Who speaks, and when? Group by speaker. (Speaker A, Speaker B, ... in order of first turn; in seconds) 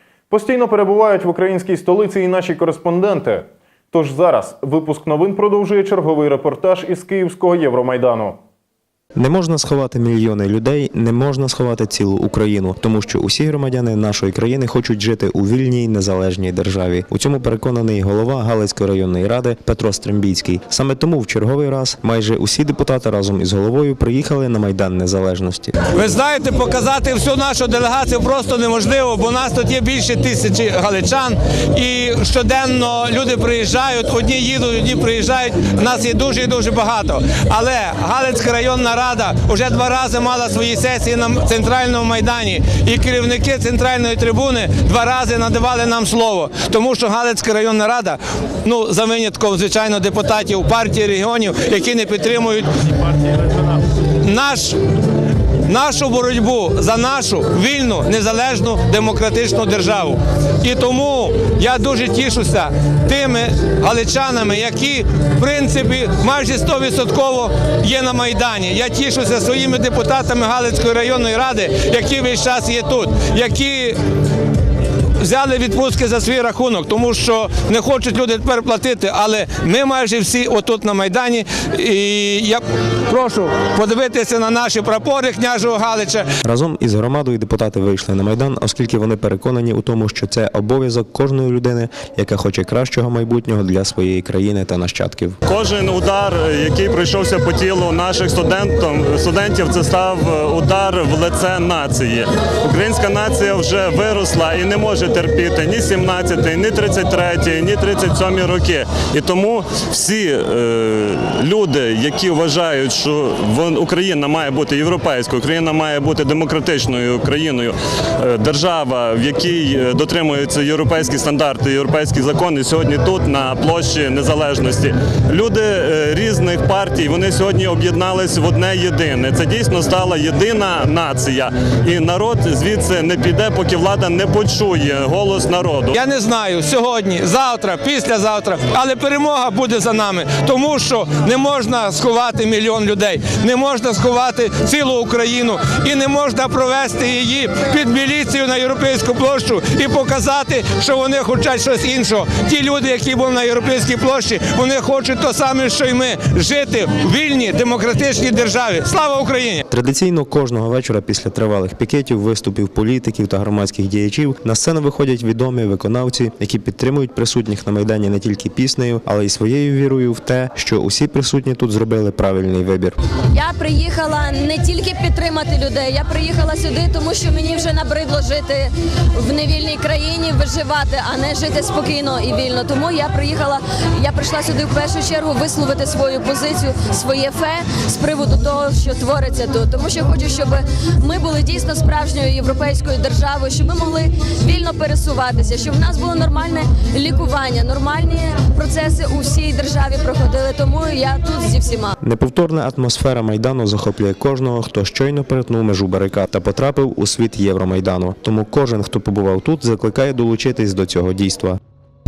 Speaker A: 0.3-8.4
Speaker B: 9.2-25.7, 86.4-95.4, 159.7-173.0, 202.0-211.6
Speaker C: 25.9-54.8, 55.6-74.0, 75.2-86.3, 135.9-159.6
Speaker D: 95.5-136.0
Speaker E: 173.3-201.9